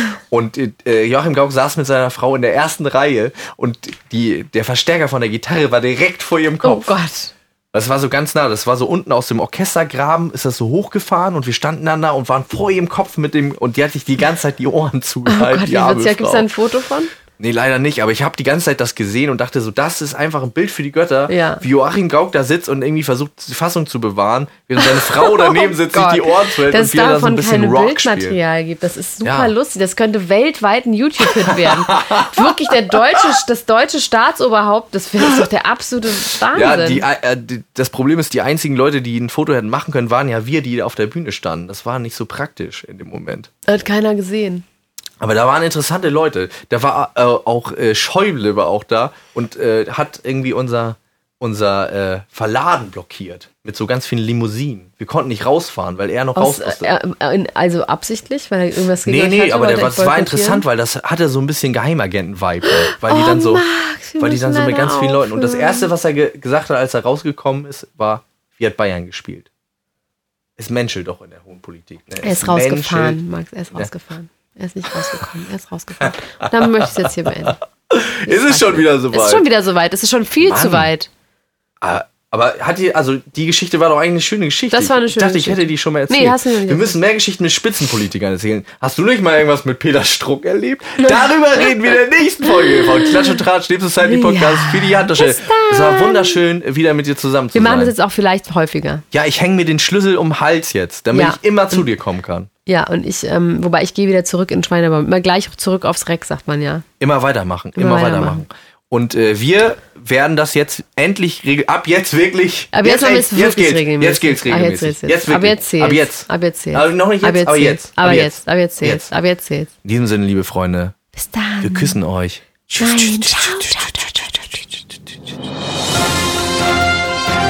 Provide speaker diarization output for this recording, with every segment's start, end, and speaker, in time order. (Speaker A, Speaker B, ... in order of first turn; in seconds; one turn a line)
Speaker A: 0.3-7.0
Speaker B: 6.6-7.3
Speaker A: 7.7-16.5
Speaker B: 15.2-17.1
Speaker A: 17.4-28.4
Speaker B: 21.3-21.6
Speaker B: 24.8-37.0
Speaker A: 29.2-29.5
Speaker A: 31.2-33.2
Speaker A: 36.5-43.5
Speaker B: 43.7-44.6
Speaker A: 45.2-56.9
Speaker B: 56.4-60.6
Speaker A: 59.0-63.6
Speaker B: 62.6-65.9
Speaker A: 64.2-69.5
Speaker A: 70.6-73.2
Speaker B: 72.2-77.6
Speaker A: 76.4-79.4
Speaker B: 78.2-81.1
Speaker A: 80.4-80.9
Speaker A: 81.8-97.9
Speaker B: 84.7-87.0
Speaker B: 91.0-91.7
Speaker B: 92.6-93.1
Speaker B: 94.0-96.4
Speaker B: 97.5-99.0
Speaker A: 99.1-102.5
Speaker B: 101.1-101.8
Speaker B: 102.7-106.8
Speaker A: 107.0-119.1
Speaker B: 107.8-108.4
Speaker B: 112.7-119.7
Speaker A: 119.8-120.9
Speaker B: 121.1-122.0
Speaker A: 121.6-123.9
Speaker B: 122.8-124.6